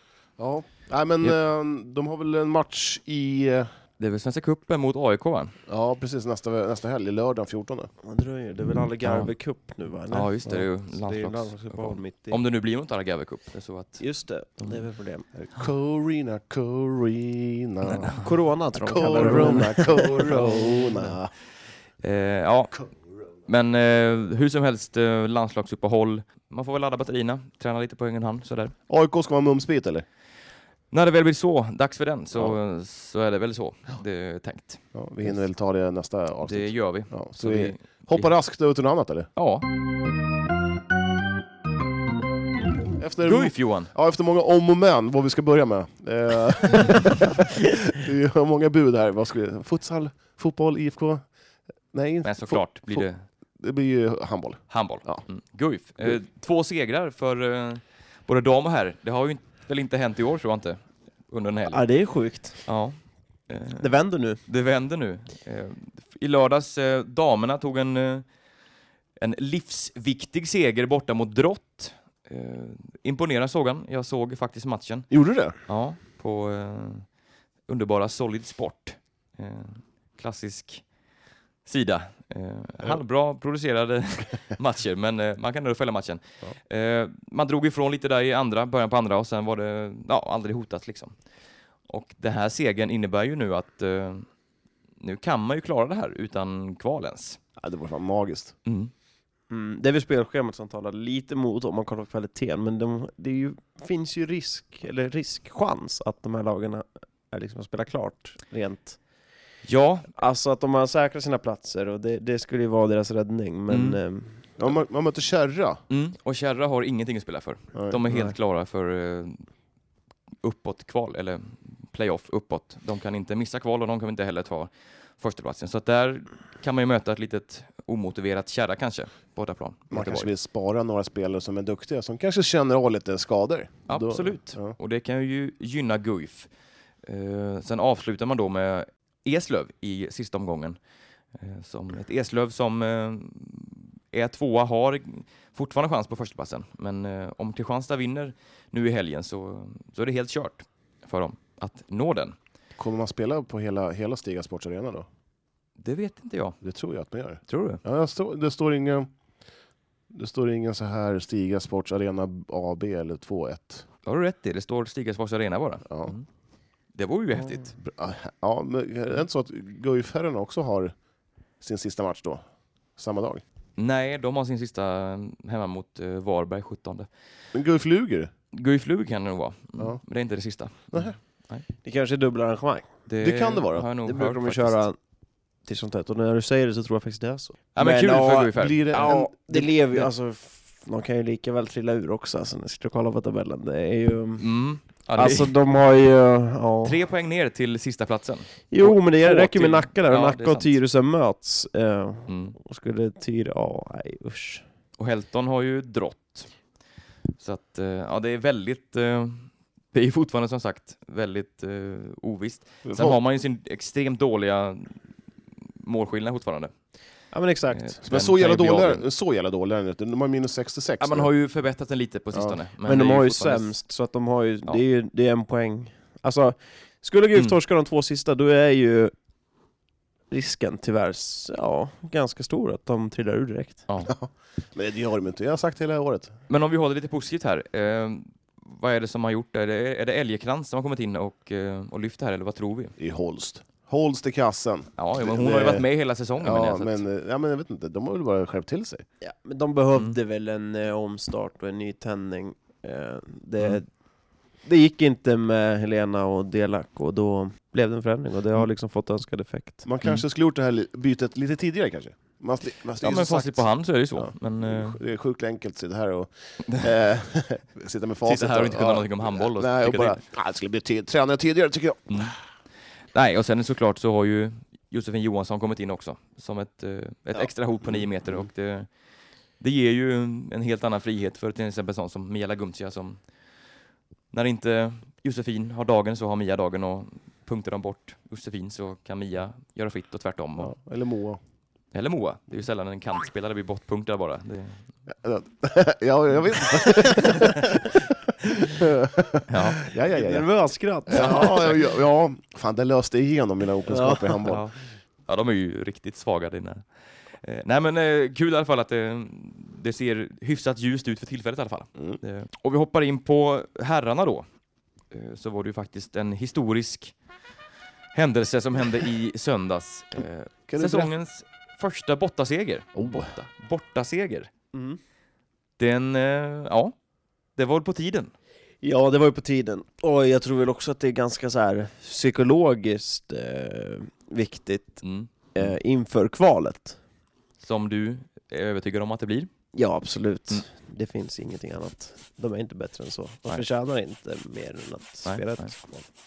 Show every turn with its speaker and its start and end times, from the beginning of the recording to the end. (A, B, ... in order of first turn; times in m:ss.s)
0:00.4-0:03.7 A
0:04.0-0:05.5 B
0:05.7-0:07.9 A
0:08.0-0:12.4 C
0:09.0-0:09.3 B
0:10.1-0:14.8 B
0:14.0-0:15.2 C
0:15.3-0:18.2 A
0:17.9-0:18.3 B
0:18.2-0:21.1 C
0:18.9-0:21.3 A
0:18.9-0:19.6 B
0:22.0-0:22.8 B
0:23.5-0:28.7 B
0:28.9-0:30.0 A
0:30.9-0:34.8 B
0:34.9-0:39.3 A
0:36.4-0:38.3 B
0:39.4-0:39.7 B
0:43.0-0:51.2 A
0:43.2-0:43.9 B
0:51.9-0:53.1 A
0:52.2-0:53.2 B
0:53.6-0:55.2 A
0:54.7-1:01.8 B
1:01.7-1:02.6 C
1:02.6-1:03.0 B
1:03.5-1:08.3 B
1:03.8-1:04.4 C
1:09.2-1:17.1 B
1:15.1-1:15.5 A
1:17.7-1:20.8 B
1:21.6-1:31.1 B
1:31.9-1:34.2 B
1:35.0-1:37.4 B
1:37.6-1:38.5 A
1:38.6-1:38.9 B
1:39.5-1:49.0 C
1:49.6-1:50.1 B
1:50.2-1:54.4 C
1:53.7-1:54.0 B
1:54.6-1:55.8 A
1:55.9-1:59.4 B
1:58.1-1:58.3 C
2:00.4-2:10.3 B
2:09.9-2:14.7 A
2:13.9-2:16.5 B
2:17.0-2:20.8 B
2:21.3-2:32.3 B
2:32.8-2:35.1 A
2:35.8-2:36.6 B
2:36.6-2:39.1 A
2:37.5-2:37.8 B
2:40.1-2:43.8 A
2:44.0-2:46.2 B
2:46.9-2:47.8 B
2:47.8-2:50.9 A
2:51.6-2:52.4 A
2:53.0-2:53.4 A
2:53.8-2:57.1 B
2:57.5-2:58.3 A
2:58.5-3:01.6 B
3:01.8-3:02.9 C
3:03.1-3:04.8 B
3:03.2-3:03.8 A
3:04.0-3:05.0 C
3:05.6-3:14.4 C
3:07.7-3:10.0 B
3:08.5-3:09.3 A
3:14.4-3:15.5 B
3:15.1-3:17.0 C
3:16.8-3:20.8 B
3:18.7-3:24.6 C
3:22.3-3:22.6 B
3:25.0-3:26.5 B
3:27.4-3:35.0 B
3:32.8-3:33.2 A
3:35.8-3:36.7 B
3:37.3-3:38.0 C
3:37.8-3:39.0 B
3:38.0-3:41.3 A
3:41.0-3:43.7 B
3:42.8-3:49.1 C
3:50.3-3:53.8 C
3:54.0-3:56.3 A
3:56.5-4:02.9 B
4:03.0-4:05.8 A
4:05.0-4:07.0 B
4:06.4-4:09.0 A
4:09.2-4:13.9 C
4:14.6-4:19.8 C
4:19.8-4:32.3 A
4:23.0-4:25.0 B
4:28.2-4:30.2 B
4:32.1-4:32.4 B
4:33.1-4:38.9 B
4:37.9-4:38.4 A
4:39.6-4:43.2 B
4:44.3-4:50.7 B
4:50.6-4:51.4 A
4:51.9-4:54.8 B
4:55.2-4:57.8 A
4:58.8-5:00.5 A
4:59.5-4:59.8 B
5:00.1-5:01.7 C
5:01.1-5:04.6 A
5:01.1-5:01.8 B
5:03.9-5:04.4 C
5:04.4-5:06.9 B
5:07.4-5:14.4 B
5:15.1-5:17.1 B
5:18.1-5:24.5 B
5:20.7-5:21.1 A
5:23.0-5:23.3 A
5:24.7-5:25.0 C
5:25.8-5:26.9 B
5:27.6-5:28.3 B
5:28.8-5:35.0 C
5:35.0-5:35.7 B
5:35.5-5:37.0 C
5:37.6-5:39.5 B
5:39.7-5:46.1 C
5:45.2-5:45.7 B